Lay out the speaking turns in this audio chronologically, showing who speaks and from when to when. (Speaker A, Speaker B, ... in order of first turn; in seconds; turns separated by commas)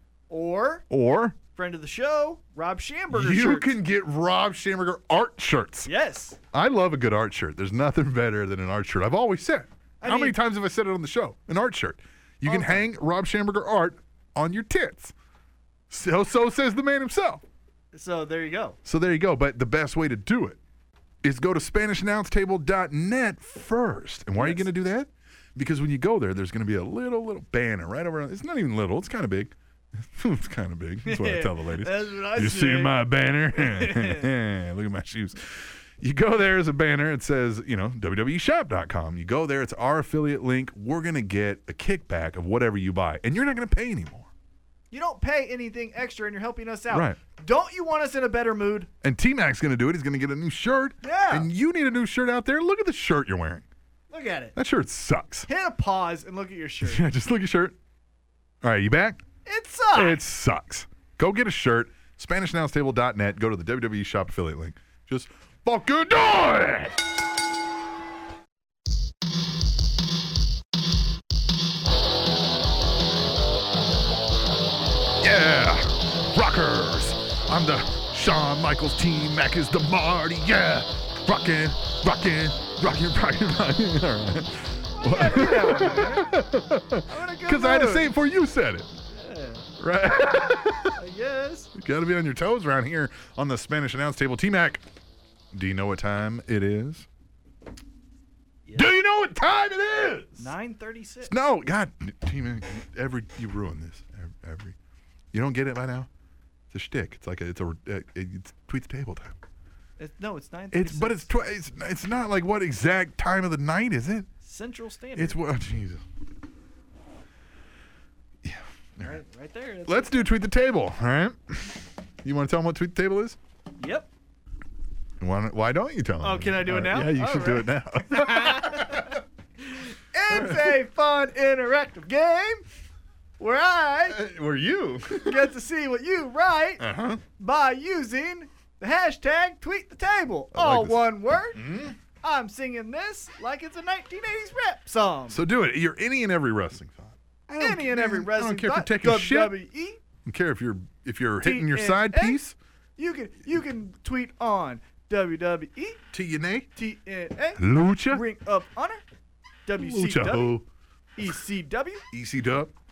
Speaker A: 0.3-0.8, Speaker B: 0.9-1.4, Speaker A: 1.5-3.7, Speaker B: 3.1-5.9, Speaker A: 5.8-6.4, Speaker B: 6.5-15.1, Speaker A: 10.0-10.3, Speaker A: 12.4-12.9, Speaker B: 15.9-17.4, Speaker A: 17.9-18.8, Speaker B: 18.8-20.6, Speaker B: 21.2-44.3, Speaker A: 24.4-24.7, Speaker A: 31.0-33.0, Speaker A: 33.5-34.3, Speaker A: 44.9-48.9, Speaker B: 46.9-47.2, Speaker B: 49.0-53.6, Speaker A: 51.0-51.5, Speaker A: 54.1-54.5, Speaker B: 54.5-55.5, Speaker A: 55.5-57.0, Speaker B: 56.8-57.8, Speaker B: 58.6-59.2, Speaker A: 59.5-60.2, Speaker B: 59.9-67.0, Speaker B: 75.2-88.9, Speaker A: 85.0-86.4, Speaker A: 87.0-88.1, Speaker A: 89.1-89.7, Speaker B: 89.8-91.0, Speaker A: 90.9-91.7, Speaker B: 91.7-94.8, Speaker B: 95.5-97.1, Speaker B: 98.7-100.5, Speaker A: 100.4-101.3, Speaker B: 101.3-104.8, Speaker B: 105.3-106.1, Speaker B: 106.7-109.3, Speaker A: 110.0-111.3, Speaker B: 110.7-114.3, Speaker A: 114.4-115.4, Speaker B: 115.2-116.0, Speaker B: 118.4-119.2, Speaker A: 119.0-120.3, Speaker B: 119.9-123.4, Speaker A: 123.8-124.1, Speaker B: 125.2-129.2, Speaker A: 126.2-132.6, Speaker B: 130.3-130.8, Speaker A: 133.4-134.2, Speaker B: 134.1-135.5, Speaker A: 135.2-136.8, Speaker B: 136.8-137.2, Speaker A: 137.4-141.7, Speaker B: 140.5-142.0, Speaker A: 142.2-145.4, Speaker B: 145.3-149.5, Speaker A: 147.5-150.0, Speaker B: 150.2-152.6, Speaker A: 151.4-152.4, Speaker A: 153.0-156.0, Speaker B: 156.1-156.7, Speaker A: 156.7-159.0, Speaker B: 157.6-158.2, Speaker A: 159.7-160.6, Speaker B: 159.8-160.6, Speaker A: 161.2-162.0, Speaker B: 162.1-162.7